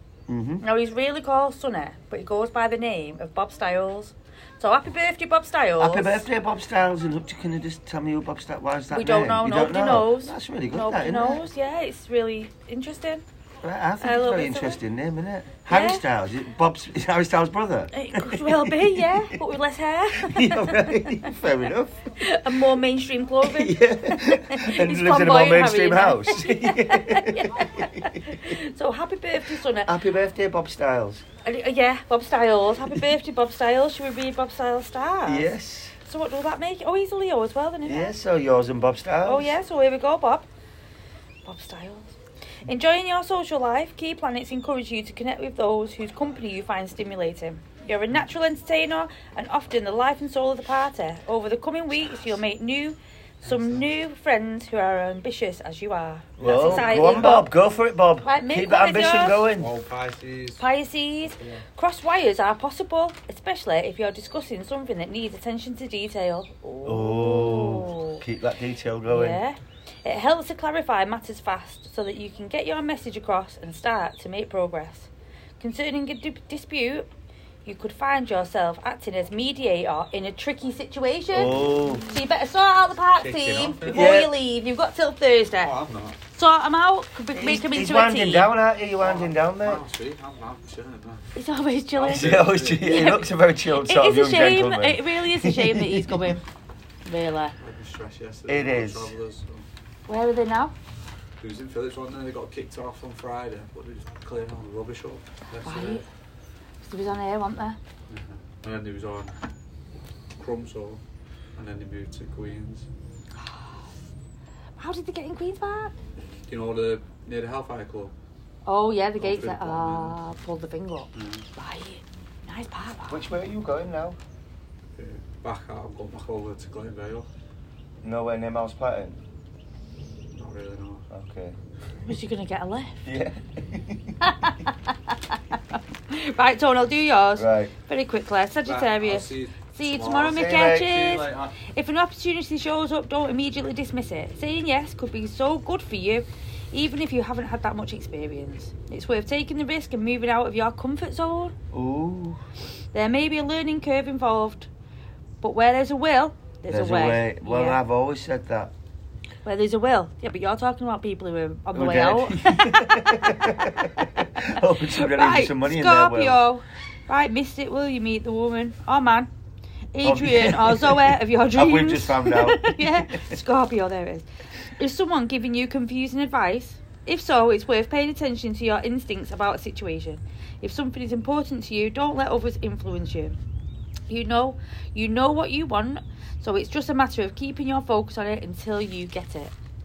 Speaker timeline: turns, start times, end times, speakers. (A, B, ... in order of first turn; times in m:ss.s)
0:00.3-0:00.6 A
0:00.6-0:06.2 B
0:05.8-0:11.4 A
0:08.9-0:13.2 B
0:13.6-0:19.3 A
0:14.0-0:14.8 B
0:15.7-0:16.0 B
0:17.9-0:21.3 B
0:20.1-0:22.0 A
0:22.2-0:29.9 B
0:23.4-0:28.5 A
0:29.8-0:31.2 A
0:31.4-0:35.5 B
0:35.2-0:36.0 A
0:36.0-0:38.1 B
0:37.8-0:39.5 A
0:39.2-0:40.5 B
0:41.4-0:42.1 B
0:42.6-0:57.5 B
0:53.4-0:53.8 C
0:56.4-0:57.2 C
0:56.4-0:59.7 A
0:58.2-0:59.5 B
0:59.6-1:00.6 C
1:00.6-1:08.2 B
1:01.3-1:01.6 C
1:06.8-1:09.4 A
1:09.1-1:17.1 B
1:17.6-1:25.8 B
1:21.3-1:22.1 A
1:21.4-1:21.9 C
1:23.2-1:24.2 C
1:23.9-1:24.3 A
1:25.5-1:26.2 C
1:26.3-1:28.5 B
1:27.3-1:29.8 A
1:29.0-1:31.2 C
1:31.3-1:36.4 B
1:31.9-1:33.2 C
1:32.1-1:36.4 A
1:37.0-1:37.5 B
1:37.6-1:39.6 C
1:38.5-1:39.1 A
1:40.1-1:40.7 B
1:41.4-1:46.0 C
1:45.6-1:46.0 B
1:46.8-1:47.8 B
1:48.1-1:49.4 C
1:50.3-1:51.0 C
1:51.6-1:52.9 C
1:54.8-1:55.9 B
1:56.5-1:58.1 C
1:58.6-2:03.3 B
1:59.2-2:00.2 C
2:01.1-2:01.5 C
2:03.1-2:04.2 A
2:04.9-2:07.3 C
2:08.0-2:09.2 A
2:10.3-2:11.0 C
2:11.1-2:11.5 A
2:12.0-2:13.0 B
2:13.0-2:14.2 A
2:14.2-2:31.5 B
2:17.4-2:17.7 A
2:18.6-2:21.6 C
2:20.2-2:21.1 A
2:31.7-2:32.4 A
2:32.9-2:34.7 B
2:35.4-2:37.8 B
2:36.7-2:38.7 A
2:39.4-2:49.3 B
2:41.7-2:46.4 A
2:49.9-3:03.4 B
2:50.0-2:53.3 A
3:04.1-3:09.5 B